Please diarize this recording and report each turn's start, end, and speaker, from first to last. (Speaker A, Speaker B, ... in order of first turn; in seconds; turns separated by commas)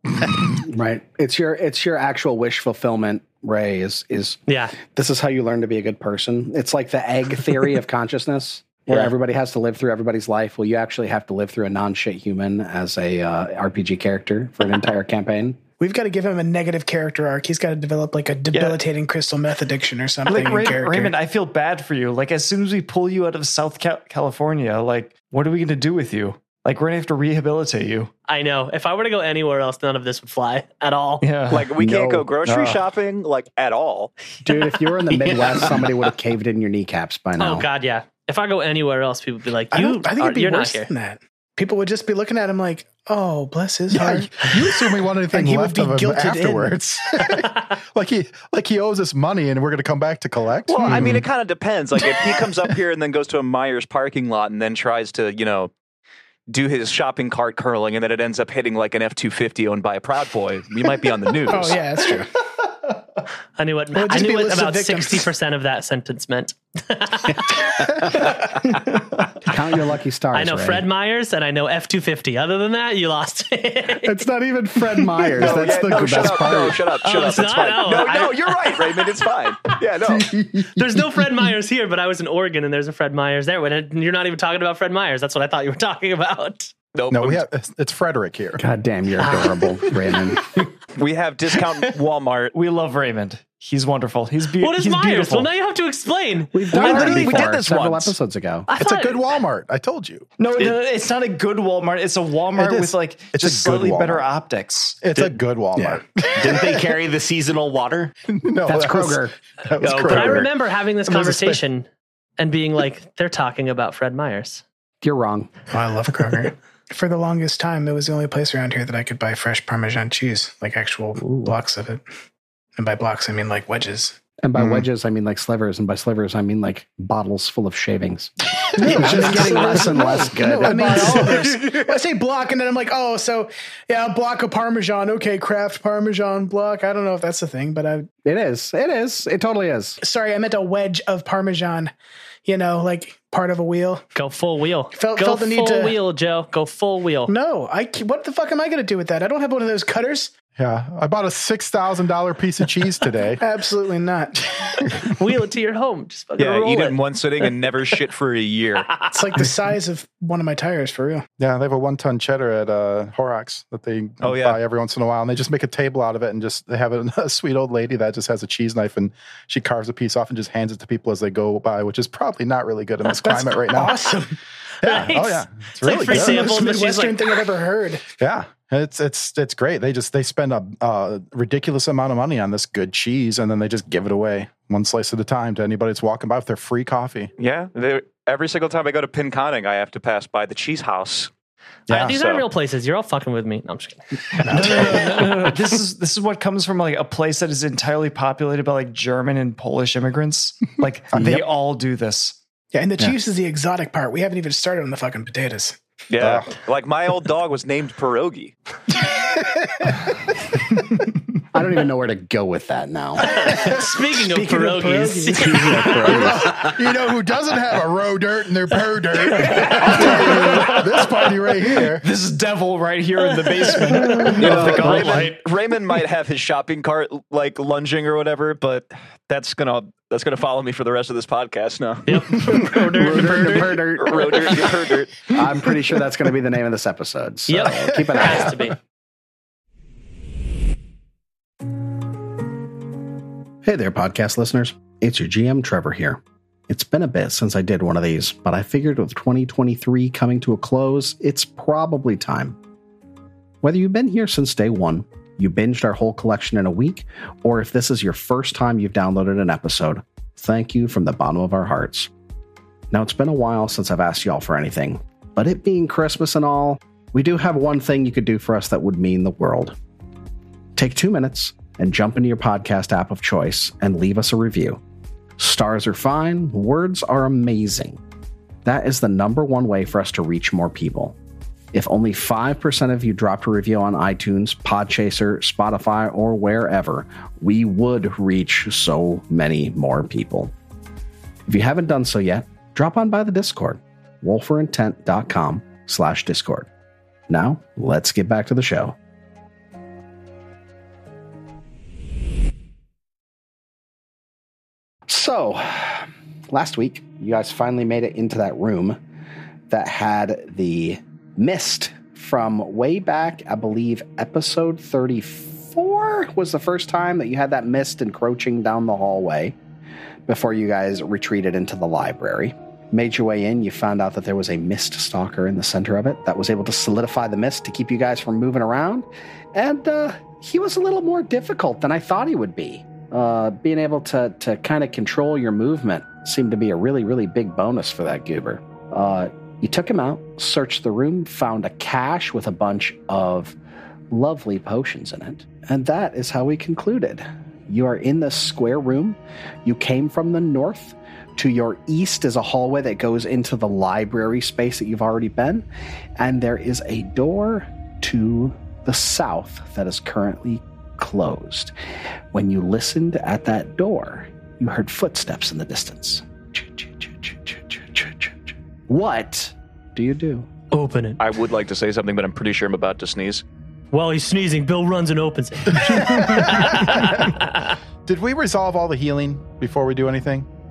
Speaker A: 0.6-15.6, Speaker B: 4.5-4.8, Speaker C: 15.8-21.1, Speaker D: 18.5-18.8, Speaker D: 20.3-28.1, Speaker B: 28.3-31.2, Speaker D: 31.2-31.7, Speaker E: 31.5-34.1, Speaker A: 31.8-32.3, Speaker D: 32.5-32.8, Speaker A: 34.4-37.7, Speaker B: 37.4-40.9, Speaker C: 39.7-46.8, Speaker F: 43.9-51.3, Speaker E: 50.7-55.7, Speaker E: 56.5-61.8, Speaker C: 61.5-62.3, Speaker B: 63.6-67.9, Speaker C: 64.0-65.3, Speaker A: 69.4-70.9, Speaker B: 70.3-74.2, Speaker A: 74.0-76.8, Speaker F: 75.1-76.8, Speaker E: 75.4-80.3, Speaker B: 77.0-79.0, Speaker B: 80.7-86.7, Speaker E: 87.0-87.4, Speaker F: 87.1-88.6, Speaker A: 88.6-90.4, Speaker B: 89.2-89.6, Speaker E: 91.0-92.5, Speaker D: 92.5-95.5, Speaker B: 94.6-97.5, Speaker A: 96.5-98.7, Speaker E: 96.7-98.2, Speaker B: 98.7-99.2, Speaker F: 98.8-100.3, Speaker D: 100.4-105.0, Speaker F: 102.5-104.3, Speaker F: 105.0-107.0, Speaker G: 106.4-108.1, Speaker F: 108.3-110.5, Speaker A: 108.7-109.3, Speaker G: 109.8-110.5, Speaker B: 109.9-114.6, Speaker F: 111.1-111.6, Speaker A: 115.0-115.5, Speaker C: 115.7-122.0, Speaker C: 122.8-124.2, Speaker A: 124.4-131.5, Speaker F: 124.6-124.8, Speaker C: 128.8-138.1, Speaker F: 128.8-129.8, Speaker F: 130.7-131.3, Speaker A: 138.2-140.0, Speaker C: 140.0-141.9, Speaker C: 142.5-144.1, Speaker B: 144.2-147.3, Speaker C: 144.9-146.0, Speaker C: 147.3-150.3, Speaker F: 150.6-153.4, Speaker C: 153.4-154.4, Speaker B: 155.0-157.0, Speaker E: 156.4-159.0, Speaker C: 159.1-161.2, Speaker F: 161.4-174.1, Speaker E: 164.2-164.6, Speaker C: 173.2-174.4, Speaker F: 174.8-176.6, Speaker B: 174.8-177.3, Speaker C: 176.1-178.1, Speaker F: 178.2-187.3, Speaker E: 187.4-191.3, Speaker B: 191.9-195.5, Speaker E: 191.9-192.4, Speaker D: 194.5-202.4, Speaker C: 194.5-195.1, Speaker F: 201.1-201.4, Speaker C: 202.7-205.8, Speaker E: 206.1-208.6, Speaker F: 206.2-206.5, Speaker F: 209.4-210.1, Speaker A: 211.5-213.6, Speaker B: 213.2-216.3, Speaker C: 214.3-215.7, Speaker A: 215.3-216.7, Speaker F: 215.9-222.1, Speaker D: 219.8-221.1, Speaker D: 221.7-225.5, Speaker E: 224.1-235.3, Speaker A: 224.5-225.0, Speaker B: 232.1-234.2, Speaker A: 232.8-234.8, Speaker A: 235.3-238.6, Speaker B: 237.5-238.8, Speaker F: 238.0-238.5, Speaker A: 243.6-252.6, Speaker A: 253.6-262.1, Speaker A: 262.9-269.8, Speaker A: 270.8-274.8, Speaker A: 275.4-278.0, Speaker A: 278.6-281.2, Speaker A: 281.7-290.5, Speaker A: 291.5-296.7, Speaker A: 297.3-299.0, Speaker A: 305.1-309.0, Speaker A: 309.7-319.6, Speaker A: 320.3-343.6, Speaker A: 344.1-355.7, Speaker A: 356.2-361.7, Speaker A: 362.3-370.5, Speaker B: 370.7-371.2, Speaker E: 371.2-373.4, Speaker B: 373.9-377.7, Speaker F: 375.8-377.4, Speaker F: 378.1-380.5